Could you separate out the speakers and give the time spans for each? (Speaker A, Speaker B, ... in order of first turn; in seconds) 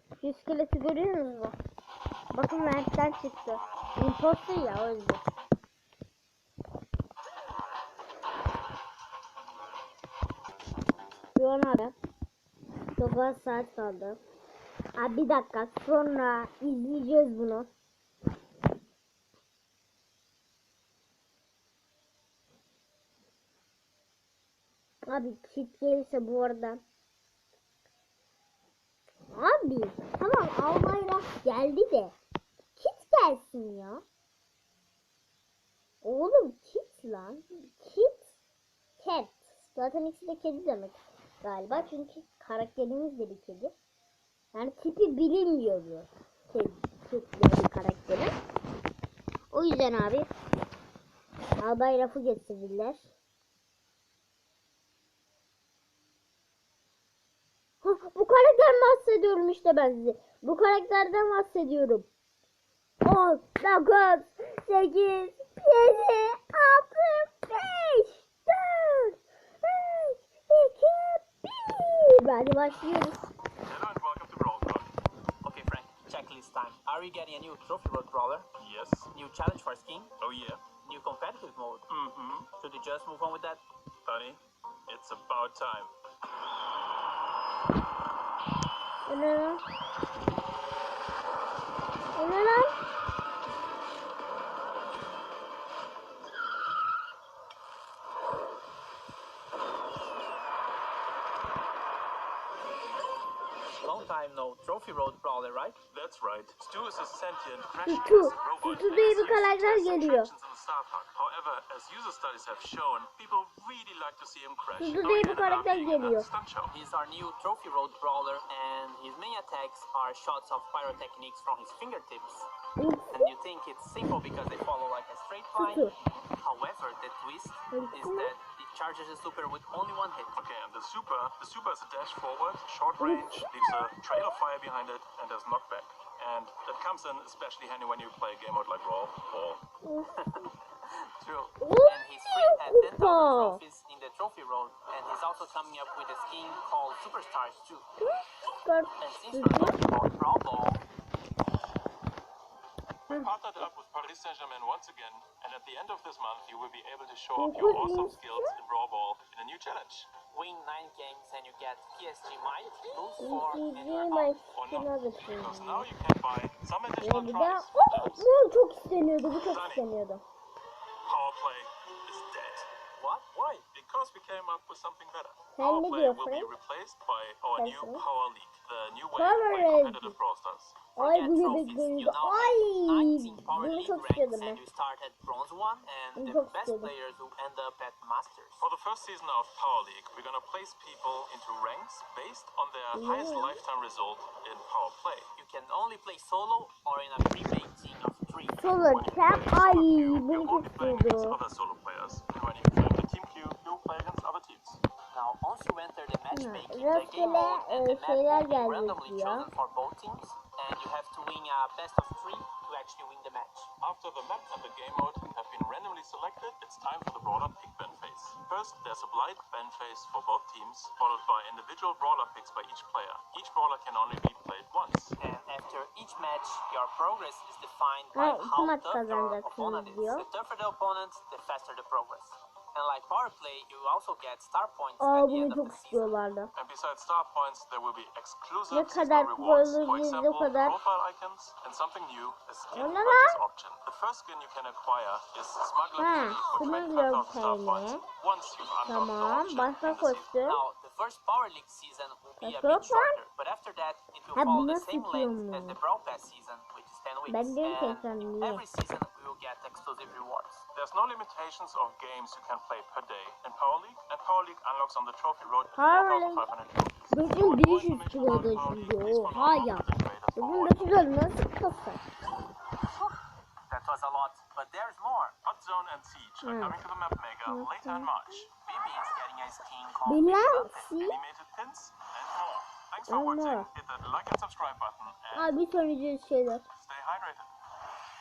Speaker A: 0.2-1.6, 2.3-5.3, 11.3-11.9, 13.0-14.2, 15.0-17.7, 25.1-26.8, 29.3-32.1, 32.8-34.0, 36.0-38.3, 39.0-43.7, 44.5-48.3, 49.5-50.3, 51.6-53.1, 57.8-62.1, 63.0-73.3, 89.1-89.6, 92.2-92.8, 107.9-110.3, 114.8-116.3, 122.8-123.3, 125.6-125.9, 127.7-128.3, 133.0-133.5, 139.8-140.1, 141.6-143.6, 148.0-149.8, 157.4-158.5, 163.2-165.9, 167.0-170.2, 175.6-176.5, 177.6-178.0, 179.2-180.2, 181.0-184.6, 186.2-186.9, 192.9-193.6, 198.6-201.4, 206.3-209.5, 228.2-230.3, 235.0-236.5, 238.7-240.8, 242.7-243.4, 246.0-248.0, 248.9-250.6, 252.4-253.2, 254.4-255.8, 257.3-258.6, 265.8-266.5, 267.1-272.1, 276.4-276.8, 277.5-278.1, 280.1-281.2, 283.1-283.7, 285.3-286.6
Speaker B: 73.6-74.9, 78.6-79.1, 80.2-80.7, 81.9-82.5, 84.0-85.9, 105.9-116.7, 130.3-139.6, 153.1-160.1, 164.5-168.3, 169.3-169.9, 171.1-172.7, 173.7-180.9, 188.6-195.3, 198.8-204.8, 213.8-225.2, 236.5-250.4, 260.7-271.1, 275.4-278.5, 280.9-285.6, 286.8-287.5
Speaker C: 75.4-78.5, 79.1-80.2, 80.8-81.9, 82.6-83.6, 103.8-105.8, 116.7-122.5, 123.1-130.4, 140.2-147.9, 149.0-150.8, 160.3-164.5, 173.0-173.7, 181.0-188.7, 195.4-198.6, 205.1-213.7, 225.2-236.2, 246.3-246.7, 250.5-260.6, 273.7-275.4, 278.6-281.0